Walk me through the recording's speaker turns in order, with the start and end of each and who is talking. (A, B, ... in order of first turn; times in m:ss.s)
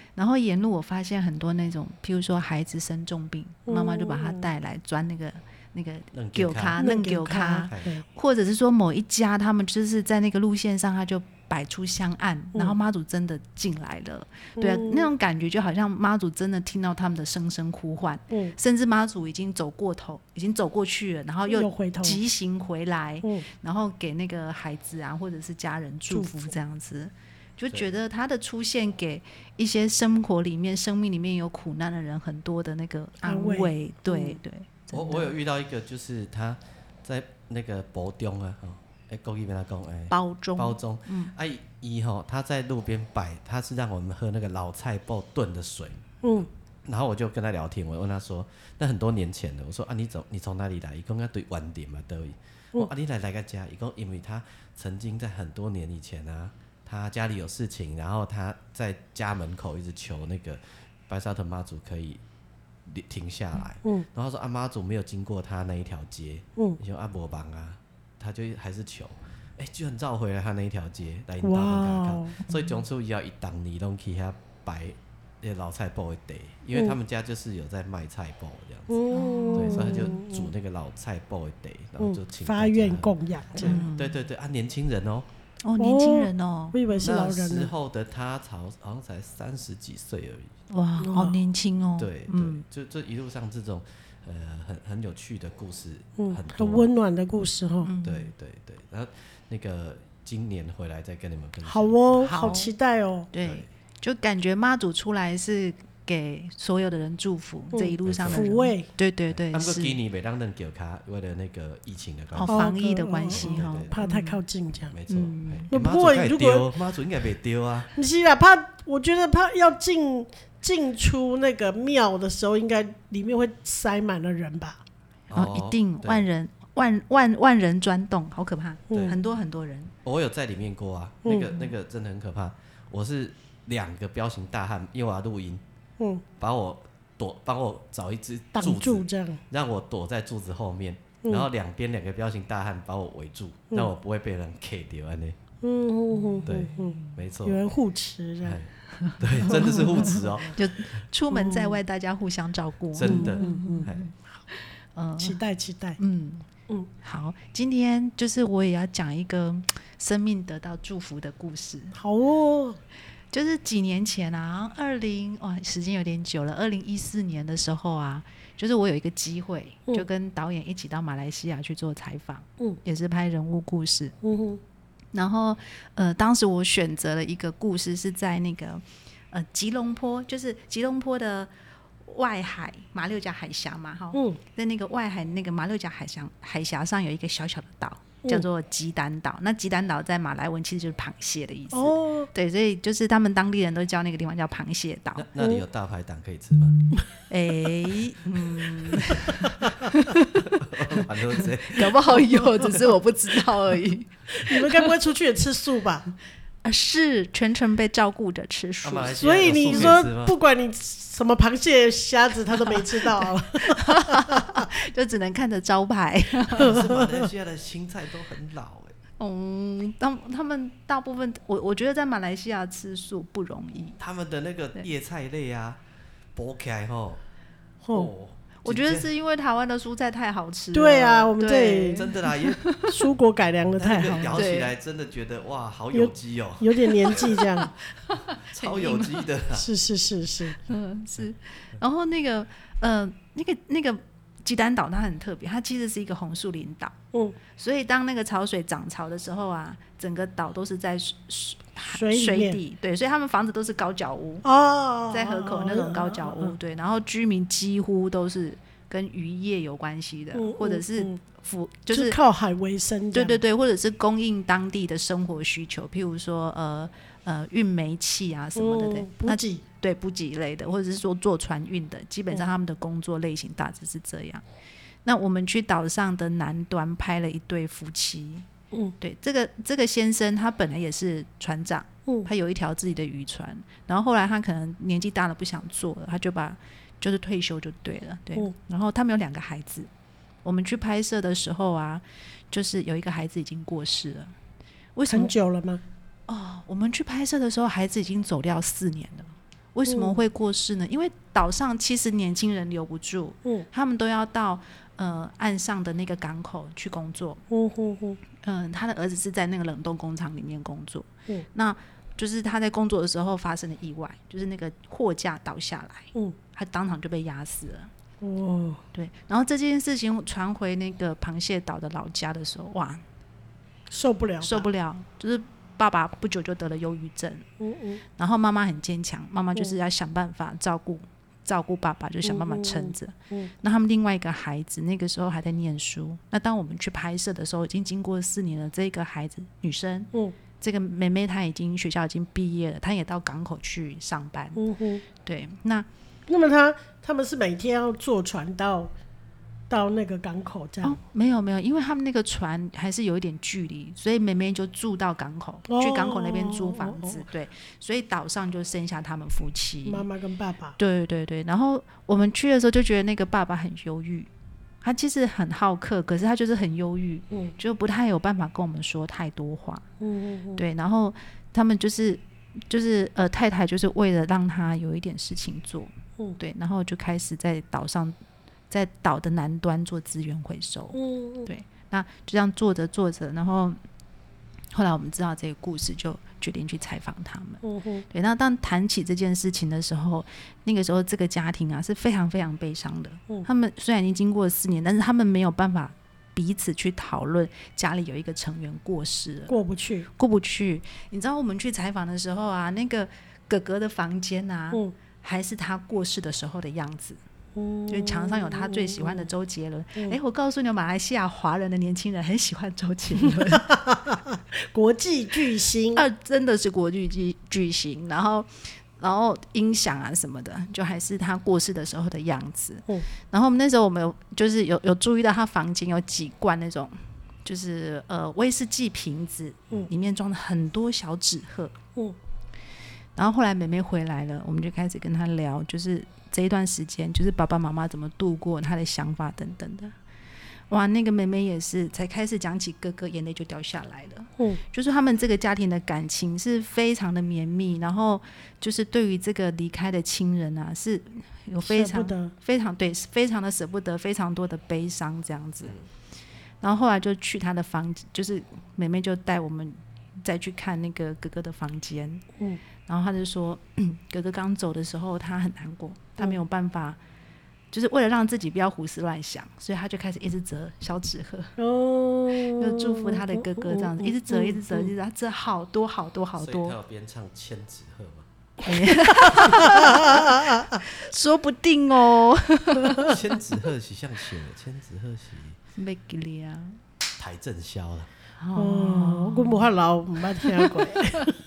0:00.2-0:35.3 A
0:03.7-0:04.5 B
0:06.1-0:06.8 C
0:06.8-0:08.0 B
0:14.6-0:15.1 B
0:21.5-0:22.2 B
0:33.2-0:34.4 B
0:34.9-0:46.0 C
0:40.1-0:41.3 A
0:46.9-1:02.2 C
1:02.8-1:19.0 C
1:11.4-1:12.4 B
1:12.5-1:12.7 A
1:18.9-1:20.5 B
1:19.1-1:20.1 A
1:19.5-1:25.2 C
1:22.0-1:23.8 B
1:23.6-1:24.2 A
1:25.6-1:26.9 A
1:25.8-1:27.7 B
1:27.0-1:30.5 C
1:30.7-1:32.6 A
1:31.0-1:31.4 B
1:32.0-1:36.9 C
1:36.2-1:37.9 B
1:37.8-1:38.3 A
1:38.0-1:42.6 C
1:41.6-1:43.3 B
1:42.2-1:42.7 A
1:43.3-1:49.9 A
1:43.4-1:43.6 C
1:47.7-1:48.9 B
1:48.0-1:48.4 C
1:49.3-1:52.7 C
1:52.3-1:54.4 A
1:52.5-1:54.9 B
1:53.3-1:54.0 C
1:54.9-1:57.9 C
1:55.1-1:55.7 A
1:55.7-1:56.7 B
1:57.9-2:04.8 B
2:05.3-2:06.2 C
2:05.3-2:09.9 A
2:08.9-2:09.1 B
2:08.9-2:09.2 C
2:10.0-2:15.6 C
2:11.2-2:11.6 B
2:16.0-2:16.2 B
2:16.4-2:25.4 C
2:18.6-2:19.4 B
2:21.2-2:21.5 B
2:25.6-2:28.6 B
2:26.1-2:27.2 A
2:26.5-2:27.6 C
2:28.4-2:30.6 C
2:29.0-2:34.1 A
2:29.5-2:30.3 B
2:31.3-2:31.8 B
2:32.9-2:34.0 C
2:33.0-2:33.9 B
2:35.0-2:35.4 A
2:35.2-2:36.0 B
2:36.0-2:36.5 A
2:37.0-2:42.0 A
2:41.9-2:42.8 B
2:43.3-2:54.1 A
2:54.2-2:54.6 B
2:55.1-3:01.5 A
3:02.0-3:15.3 A
3:04.1-3:04.4 B
3:11.7-3:12.3 B
3:15.1-3:16.8 C
3:15.4-3:15.6 B
3:17.3-3:20.4 A
3:20.4-3:22.1 C
3:21.4-3:24.8 A
3:24.4-3:26.1 B
3:26.6-3:30.0 A
3:28.8-3:30.4 C
3:29.2-3:34.6 B
3:32.7-3:36.8 A
3:36.5-3:38.9 C
3:36.7-3:37.2 B
3:39.2-3:44.0 A
3:44.0-3:45.8 C
3:46.4-3:47.2 C
3:47.8-3:48.1 B
3:47.9-3:49.1 C
3:48.6-3:53.1 A
3:50.7-3:52.0 B
3:52.0-3:52.6 C
3:52.7-3:54.4 B
3:53.7-3:57.3 C
3:53.8-3:54.7 A
3:55.9-3:57.7 B
3:57.9-3:59.2 A
3:58.5-3:59.7 C
3:59.5-4:00.6 B
4:00.6-4:06.9 A
4:07.5-4:14.4 A
4:11.9-4:12.6 B
4:14.4-4:16.6 B
4:15.1-4:22.2 A
4:20.3-4:21.2 B
4:21.9-4:23.4 B
4:23.1-4:34.4 A
4:28.6-4:29.6 B
4:35.0-4:38.4 A
4:39.0-4:49.9 A
4:50.4-4:54.3 A
4:55.0-4:55.3 A
4:55.1-4:55.8 B
4:56.3-5:07.4 A
4:59.9-5:00.2 B
5:07.5-5:08.2 B
5:08.4-5:17.9 A
5:18.2-5:18.8 B
5:18.9-5:23.0 A
5:23.9-5:24.6 B
5:24.4-5:27.4 A
5:27.6-5:28.0 B
5:28.2-5:44.6 A
5:32.2-5:33.5 B
5:44.6-5:45.0 B
5:45.2-5:45.9 A
5:46.3-5:48.9 B
5:49.7-5:51.0 B
5:50.8-6:00.0 A
5:55.7-5:57.2 B
5:59.8-6:00.8 B
6:00.8-6:04.3 A
6:04.8-6:09.8 A
6:10.0-6:10.6 B
6:10.6-6:18.1 A
6:18.7-6:23.8 A
6:20.9-6:21.5 B
6:24.7-6:39.6 A
6:27.6-6:28.0 B
6:39.5-6:40.1 B
6:40.2-6:47.2 A
6:47.5-6:49.3 B
6:47.9-6:53.7 A
6:53.3-6:56.0 B
6:55.9-7:11.8 A
7:13.2-7:19.9 A
7:20.7-7:35.8 A
7:31.6-7:32.3 B
7:36.6-7:42.2 A
7:42.8-7:47.0 A
7:47.7-7:51.5 A
7:51.6-7:54.9 B
7:52.5-7:56.7 A
7:56.4-7:58.3 C
7:58.6-8:03.1 A
7:59.3-8:00.8 B
8:03.0-8:05.6 C
8:05.8-8:06.8 A
8:07.2-8:08.1 C
8:08.4-8:09.7 A
8:08.5-8:11.3 B
8:10.4-8:11.2 A